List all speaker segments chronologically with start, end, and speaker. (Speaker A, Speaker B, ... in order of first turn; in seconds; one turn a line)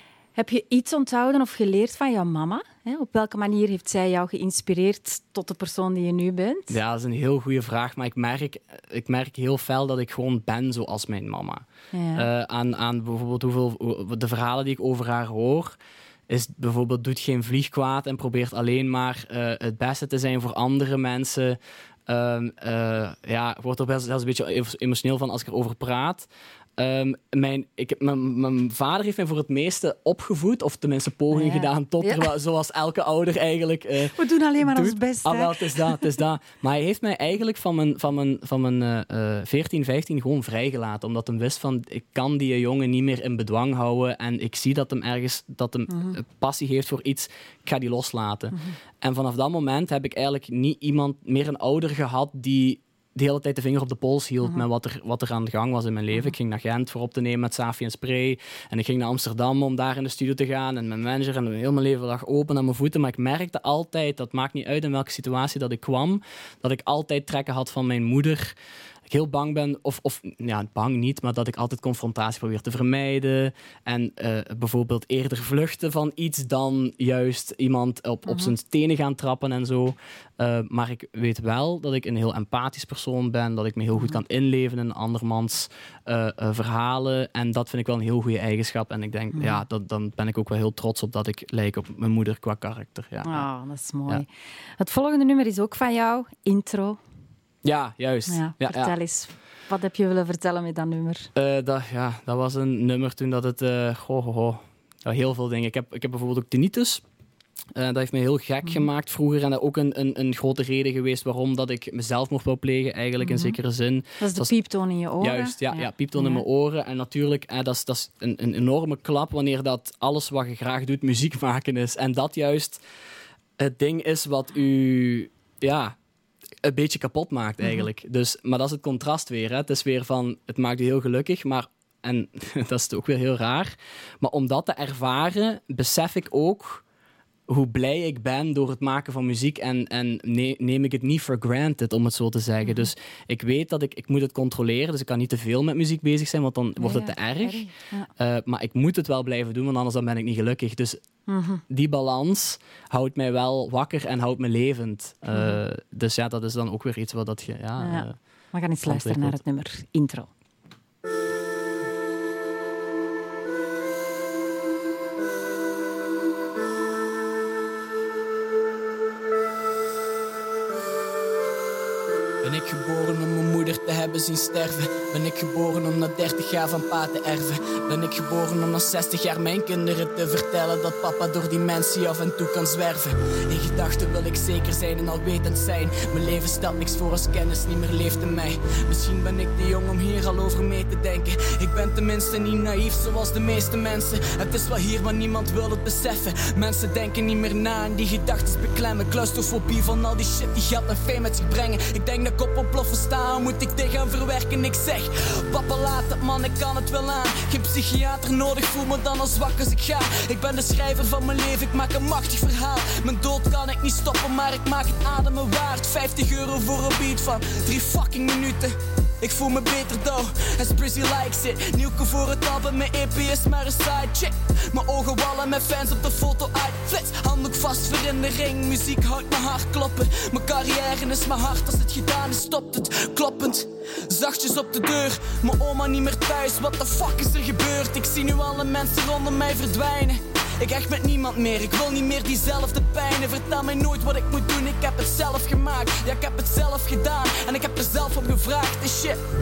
Speaker A: 0.3-6.8
Speaker B: 6.7-15.8
Speaker A: 11.9-12.3
Speaker B: 16.3-68.5
Speaker A: 31.3-32.3
Speaker A: 34.1-36.0
Speaker A: 45.9-46.2
Speaker B: 69.1-93.5
Speaker A: 78.3-78.5
Speaker A: 89.3-89.6
Speaker A: 93.2-94.3
Speaker A: 94.8-97.0
Speaker B: 97.6-98.9
Speaker A: 98.3-101.3
Speaker B: 101.3-107.0
Speaker B: 107.7-114.5
Speaker A: 113.2-113.5
Speaker A: 114.2-116.4
Speaker B: 115.2-122.8
Speaker B: 123.6-126.0
Speaker B: 126.6-136.8
Speaker B: 137.5-151.0
Speaker A: 146.8-148.1
Speaker A: 151.3-151.6
Speaker B: 151.7-158.2
Speaker A: 155.3-155.6
Speaker A: 157.8-160.3
Speaker B: 158.8-159.4
Speaker C: 172.4-249.2
Speaker B: 236.5-239.3